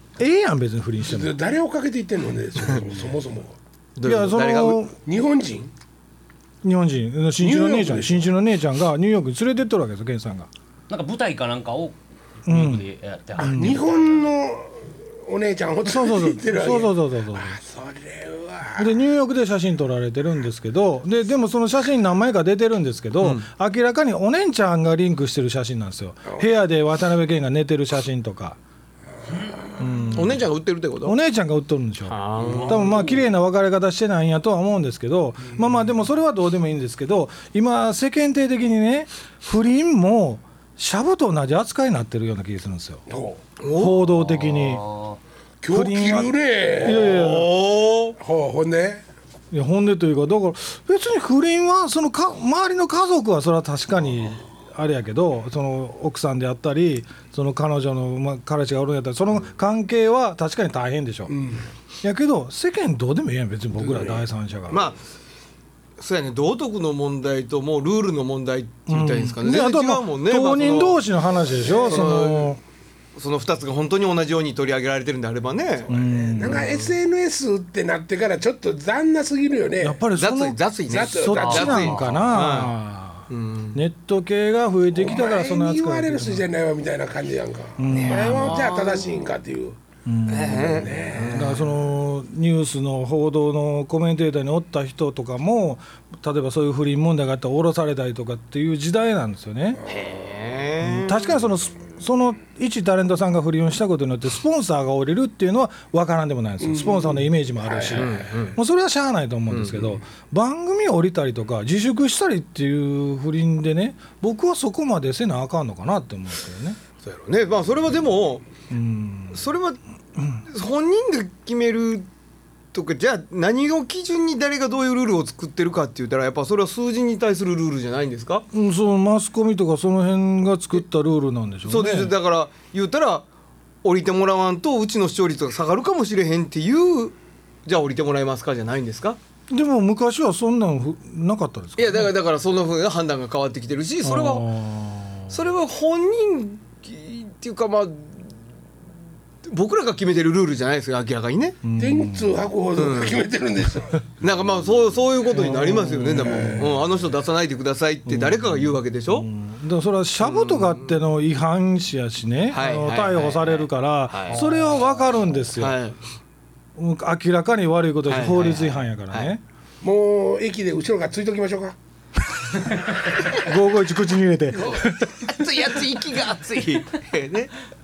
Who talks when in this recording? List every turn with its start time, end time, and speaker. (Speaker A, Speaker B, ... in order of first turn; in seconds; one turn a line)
Speaker A: 0.2-1.3
Speaker B: 1.0-3.5
Speaker C: 4.0-4.9
Speaker A: 4.0-4.9
Speaker B: 5.0-5.7
Speaker A: 6.6-10.5
Speaker B: 7.4-8.3
Speaker D: 10.9-14.3
Speaker A: 12.5-12.8
Speaker B: 13.4-18.9
Speaker A: 13.4-13.8
Speaker A: 15.8-17.6
Speaker A: 18.7-28.6
Speaker C: 23.2-23.5
Speaker B: 29.2-30.0
Speaker A: 29.8-30.4
Speaker C: 30.1-31.2
Speaker A: 31.0-43.0
Speaker C: 32.0-33.2
Speaker B: 43.1-43.4
Speaker C: 43.6-44.1
Speaker A: 43.7-44.9
Speaker D: 44.5-45.2
Speaker B: 45.6-47.4
Speaker A: 45.7-47.5
Speaker C: 46.8-48.2
Speaker B: 48.2-49.0
Speaker A: 49.5-61.3
Speaker B: 61.3-61.6
Speaker A: 62.0-64.8
Speaker B: 63.8-64.2
Speaker C: 64.7-65.0
Speaker C: 66.0-71.0
Speaker A: 68.9-72.6
Speaker C: 71.8-72.5
Speaker C: 73.2-75.9
Speaker B: 75.8-80.0
Speaker A: 75.9-76.7
Speaker C: 76.4-76.9
Speaker A: 79.8-86.5
Speaker C: 80.1-82.7
Speaker B: 80.9-82.1
Speaker C: 83.3-83.8
Speaker B: 84.9-89.8
Speaker A: 87.8-88.6
Speaker C: 87.9-89.2
Speaker A: 90.0-99.8
Speaker C: 90.3-91.7
Speaker B: 90.4-91.5
Speaker B: 99.8-100.3
Speaker C: 99.9-101.3
Speaker A: 100.8-116.8
Speaker B: 106.6-108.3
Speaker C: 107.9-108.6
Speaker C: 109.5-110.0
Speaker C: 117.0-118.4
Speaker A: 118.7-119.5
Speaker C: 119.3-119.8
Speaker C: 120.4-122.1
Speaker C: 122.7-128.5
Speaker A: 128.5-132.1
Speaker C: 131.7-133.2
Speaker C: 133.8-139.2
Speaker A: 139.5-142.1
Speaker C: 141.8-144.5
Speaker A: 144.0-145.4
Speaker C: 145.3-148.3
Speaker C: 149.4-151.6
Speaker A: 151.6-152.5
Speaker B: 151.8-154.0
Speaker C: 152.8-153.2
Speaker C: 154.2-159.3
Speaker A: 155.3-156.6
Speaker B: 156.1-156.8
Speaker A: 158.1-165.8
Speaker C: 160.2-161.0
Speaker C: 162.5-164.4
Speaker D: 164.3-164.6
Speaker C: 165.6-166.0
Speaker A: 166.8-169.4
Speaker C: 168.1-169.3
Speaker B: 169.8-171.8
Speaker A: 173.3-175.1
Speaker C: 174.6-177.5